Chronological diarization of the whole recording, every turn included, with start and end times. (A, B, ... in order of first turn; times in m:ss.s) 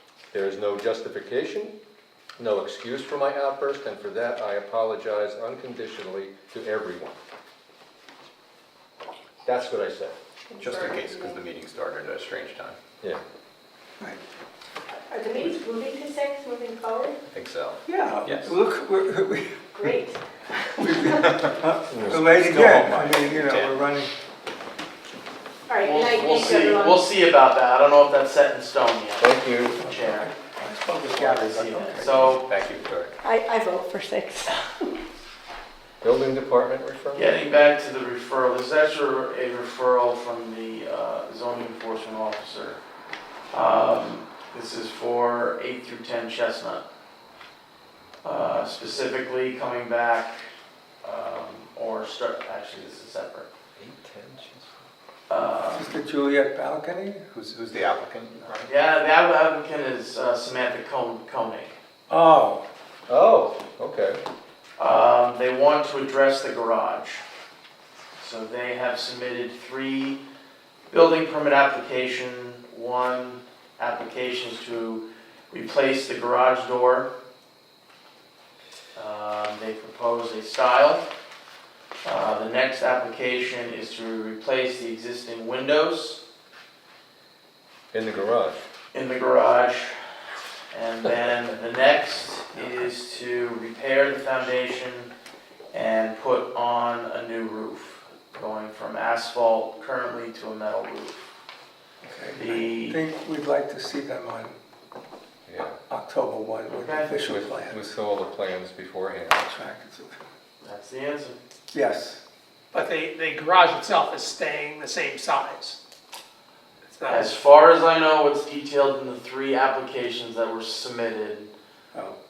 0:00.3-0:01.7 A
0:02.4-0:07.1 A
0:09.4-0:10.1 A
0:10.5-0:11.4 B
0:10.6-0:12.8 C
0:14.9-0:17.2 B
0:17.3-0:18.5 C
0:17.8-0:19.9 D
0:19.7-0:20.2 B
0:20.8-0:24.1 D
0:21.9-0:22.7 A
0:22.3-0:23.8 C
0:25.7-0:27.1 B
0:25.8-0:30.3 E
0:29.2-0:29.9 A
0:30.5-0:33.1 C
0:31.0-0:32.5 E
0:33.2-0:34.9 B
0:36.0-0:37.3 A
0:37.1-0:42.8 E
0:43.5-0:46.8 E
0:48.2-0:50.3 E
0:51.0-0:53.5 E
0:53.8-0:54.7 A
0:55.3-0:55.9 E
0:55.7-0:57.4 D
0:57.4-0:58.6 C
0:58.6-1:01.7 E
1:02.1-1:02.6 D
1:03.1-1:04.2 A
1:04.8-1:07.2 E
1:08.2-1:10.2 E
1:10.9-1:17.1 E
1:18.9-1:21.1 E
1:22.0-1:26.2 E
1:27.9-1:28.6 A
1:28.9-1:29.9 E
1:30.7-1:35.1 E
1:35.7-1:41.2 E
1:42.0-1:44.6 D
1:42.3-1:43.0 E
1:45.5-1:45.8 A
1:45.9-1:47.9 D
1:46.7-1:47.2 E
1:47.3-1:49.4 A
1:49.4-1:50.2 D
1:50.6-1:51.4 E
1:51.7-1:52.2 D
1:52.7-1:55.8 F
1:56.9-1:57.3 F
1:57.1-2:01.5 E